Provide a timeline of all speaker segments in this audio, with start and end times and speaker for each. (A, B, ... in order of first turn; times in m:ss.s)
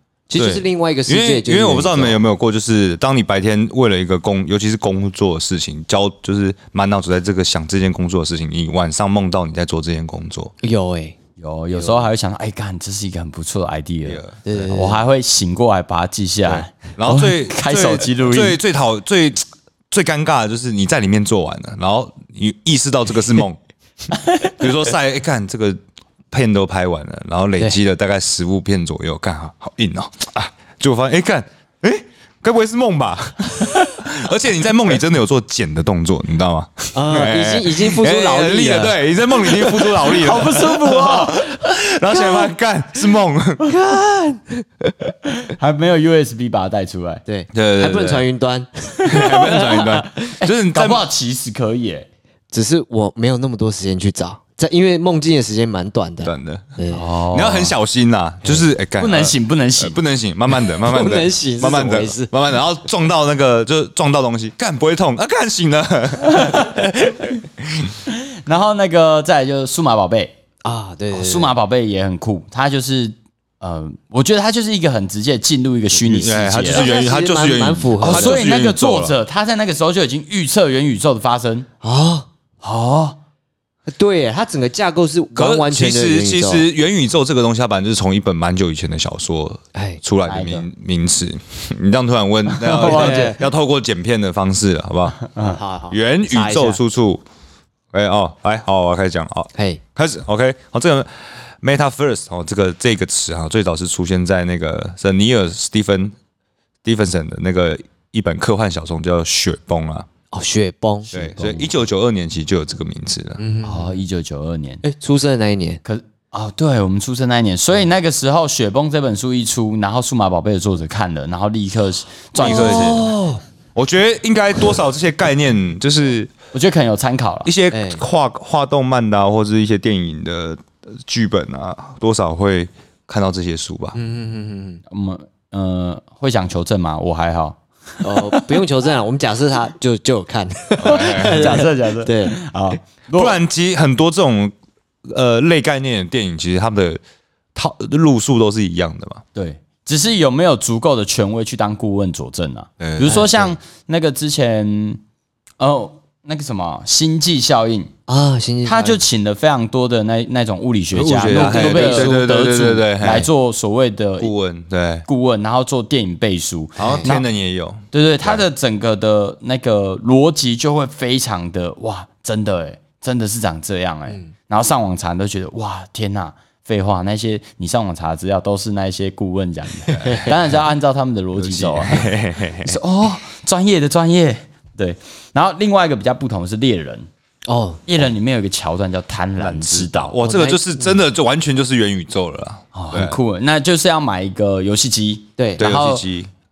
0:00.3-0:02.2 A
0:00.4-0:10.5 B
0:10.6-0:11.2 A
0:11.4-0:18.6 C
0:11.7-0:12.1 A
0:14.0-0:14.4 B
0:14.4-0:15.0 A
0:16.4-0:23.6 B
0:24.4-0:25.8 B
0:26.3-0:43.8 B
0:36.9-0:39.0 A
0:39.6-0:39.9 A
0:39.9-0:41.6 C
0:43.6-0:44.6 A
0:45.3-0:47.2 C
0:47.2-0:50.1 A
0:47.5-0:48.2 B
0:49.0-0:51.0 B
0:50.4-0:52.0 C
0:52.5-0:57.0 A
0:56.2-0:56.8 B
0:56.9-0:57.8 C
0:57.3-1:08.0 B
0:58.4-0:58.7 A
0:59.0-1:00.0 C
1:00.5-1:02.3 A
1:06.3-1:06.7 C
1:08.1-1:10.3 C
1:10.6-1:11.5 A
1:11.1-1:16.9 C
1:15.9-1:18.5 A
1:16.2-1:19.2 B
1:18.0-1:21.7 C
1:21.8-1:22.3 A
1:22.6-1:23.2 C
1:23.9-1:26.7 A
1:25.4-1:35.3 B
1:29.7-1:30.0 A
1:30.2-1:30.7 C
1:32.5-1:33.4 C
1:32.7-1:33.4 A
1:35.4-1:36.8 A
1:35.9-1:37.2 B
1:37.9-1:46.1 B
1:39.5-1:39.8 A
1:46.8-1:50.1 B
1:50.3-1:51.1 A
1:51.1-1:51.7 C
1:51.1-1:53.4 B
1:53.4-1:54.0 A
1:53.6-1:54.8 C
1:54.8-1:55.8 A
1:55.8-2:03.0 C
2:02.4-2:03.1 B
2:02.4-2:03.4 A
2:03.7-2:06.3 B
2:06.5-2:07.5 C
2:07.4-2:14.0 B
2:07.7-2:08.0 A
2:13.9-2:14.8 A
2:14.9-2:18.2 C
2:18.0-2:22.4 A
2:20.8-2:21.6 B
2:20.8-2:23.4 C
2:23.1-2:24.5 B
2:25.0-2:27.0 B
2:27.5-2:29.2 B
2:29.3-2:35.0 C
2:32.8-2:33.2 B
2:33.0-2:33.6 A
2:35.6-2:37.9 C
2:38.1-2:39.0 A
2:38.6-2:44.3 C
2:40.9-2:43.3 B
2:41.3-2:42.2 A
2:44.2-2:45.0 B
2:45.0-2:47.2 C
2:46.8-2:47.1 A
2:46.8-2:48.4 B
2:47.9-3:02.1 C
3:00.0-3:00.3 A
3:01.4-3:02.7 B
3:02.6-3:07.1 C
3:07.5-3:08.1 A
3:07.9-3:10.2 C
3:09.4-3:13.2 B
3:10.2-3:11.0 A
3:12.7-3:16.0 C
3:15.4-3:15.6 A
3:15.6-3:16.3 B